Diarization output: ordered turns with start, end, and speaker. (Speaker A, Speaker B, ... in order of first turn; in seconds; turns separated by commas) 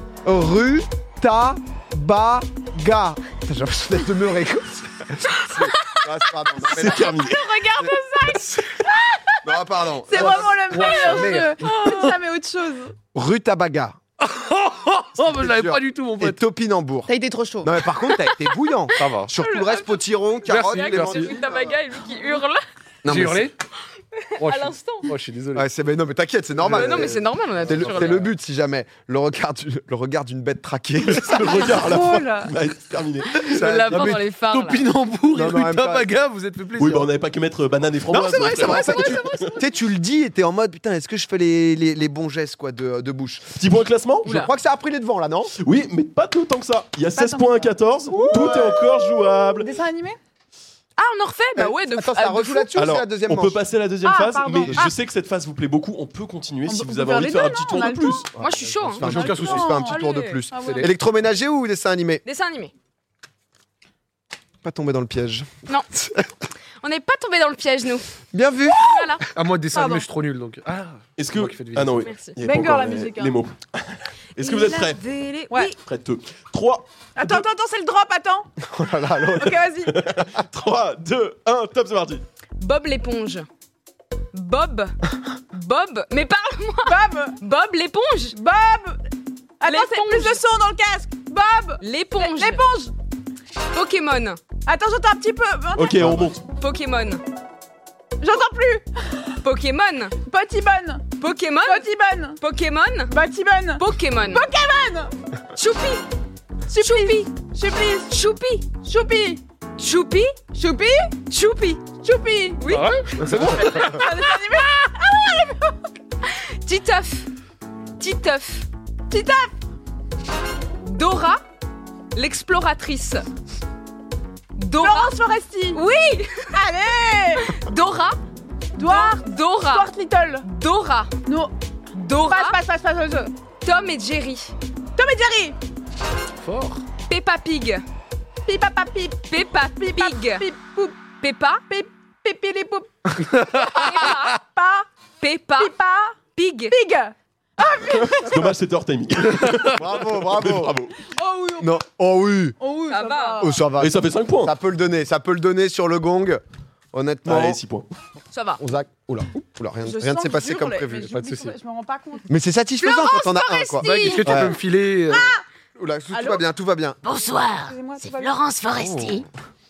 Speaker A: 0.2-7.2, Speaker B: 6.6-7.5, Speaker C: 7.0-9.5, Speaker A: 7.8-8.4, Speaker A: 9.4-11.3, Speaker C: 10.1-12.9, Speaker D: 10.1-12.2, Speaker A: 13.1-14.0, Speaker D: 14.2-16.4, Speaker A: 15.2-17.1, Speaker A: 17.6-21.7, Speaker D: 18.9-19.3, Speaker E: 19.3-22.6, Speaker D: 20.5-21.3, Speaker A: 23.0-23.5, Speaker D: 23.1-23.5, Speaker E: 24.1-25.1, Speaker D: 24.4-25.6, Speaker A: 25.5-31.7, Speaker D: 26.6-27.1, Speaker E: 26.7-28.3, Speaker B: 31.0-34.0, Speaker C: 31.4-32.5, Speaker E: 33.4-34.9, Speaker A: 33.4-34.2, Speaker D: 33.6-37.1, Speaker A: 35.3-36.1, Speaker B: 36.8-39.6, Speaker D: 38.1-39.2, Speaker A: 38.3-43.5, Speaker E: 38.5-39.4, Speaker B: 43.6-44.3, Speaker A: 44.2-45.5, Speaker E: 44.2-44.5, Speaker B: 45.6-49.7, Speaker C: 47.1-50.2, Speaker A: 48.1-48.8, Speaker E: 51.0-52.8, Speaker A: 51.5-53.6, Speaker B: 52.8-58.3, Speaker C: 54.0-54.9, Speaker C: 56.7-58.3, Speaker A: 58.3-62.2, Speaker E: 58.4-60.5, Speaker D: 59.0-59.7, Speaker C: 59.1-60.9, Speaker D: 60.6-60.9, Speaker E: 62.2-62.7, Speaker A: 64.6-66.3, Speaker E: 66.8-68.1, Speaker A: 68.3-69.1, Speaker E: 68.7-69.2, Speaker D: 69.3-72.1, Speaker C: 69.7-70.0, Speaker B: 71.2-75.0, Speaker E: 72.0-72.4, Speaker C: 72.4-73.3, Speaker E: 74.4-75.7, Speaker C: 75.5-75.7, Speaker B: 75.8-77.4, Speaker C: 77.2-78.5, Speaker A: 78.7-79.6, Speaker C: 79.3-80.0, Speaker B: 79.8-82.2, Speaker E: 82.6-83.5, Speaker E: 84.3-85.0, Speaker E: 85.5-88.4, Speaker C: 86.8-87.4, Speaker C: 88.3-89.0, Speaker C: 89.6-92.9, Speaker E: 89.6-90.4, Speaker E: 91.8-92.6, Speaker E: 93.7-94.4, Speaker C: 94.7-96.2, Speaker B: 95.7-96.4, Speaker A: 96.0-96.3, Speaker E: 96.5-97.2, Speaker C: 98.2-99.3, Speaker E: 99.4-100.2, Speaker C: 100.2-101.1, Speaker E: 101.2-101.9, Speaker C: 101.6-102.4, Speaker E: 102.4-103.1, Speaker C: 103.1-105.1, Speaker E: 103.8-104.4, Speaker E: 105.5-106.0, Speaker C: 106.7-108.2, Speaker E: 106.8-107.3, Speaker E: 108.1-108.7, Speaker C: 108.7-109.4, Speaker E: 109.8-110.4, Speaker C: 110.5-111.1, Speaker E: 111.3-111.8, Speaker C: 112.0-112.8, Speaker E: 112.6-113.9, Speaker D: 112.7-114.0, Speaker C: 113.4-115.8, Speaker E: 116.2-117.3, Speaker E: 118.0-118.7, Speaker C: 119.1-119.5, Speaker E: 120.8-121.4, Speaker E: 122.1-123.2, Speaker E: 124.5-125.1, Speaker C: 124.8-125.8, Speaker E: 125.7-126.5, Speaker C: 126.5-127.5, Speaker E: 127.4-128.2, Speaker E: 128.8-129.9, Speaker C: 128.8-130.4, Speaker E: 130.4-131.1, Speaker C: 131.2-131.5, Speaker E: 131.9-132.6, Speaker C: 132.2-133.3, Speaker E: 133.6-134.5, Speaker C: 134.9-135.6, Speaker D: 136.4-136.8, Speaker E: 137.1-137.8, Speaker C: 138.4-141.0, Speaker E: 139.3-140.5, Speaker E: 141.2-141.6, Speaker C: 141.7-144.9, Speaker D: 143.3-143.6, Speaker E: 143.5-144.4, Speaker E: 145.2-145.7, Speaker C: 145.6-146.2, Speaker E: 146.3-146.8, Speaker C: 146.7-148.5, Speaker B: 147.9-151.0, Speaker A: 149.6-150.8, Speaker C: 151.0-151.8, Speaker A: 151.6-152.6, Speaker C: 152.6-153.6, Speaker E: 152.9-153.6, Speaker A: 153.4-156.4, Speaker B: 153.8-154.5, Speaker A: 156.9-157.6, Speaker B: 157.2-157.8, Speaker E: 158.3-158.6, Speaker A: 158.6-161.2, Speaker C: 159.8-162.3, Speaker D: 161.1-161.5, Speaker A: 162.3-164.6, Speaker E: 162.8-164.5, Speaker D: 163.8-165.4, Speaker C: 165.1-165.4, Speaker A: 165.8-167.0, Speaker C: 166.1-166.4, Speaker E: 167.0-169.2, Speaker C: 167.7-168.3, Speaker A: 168.8-169.2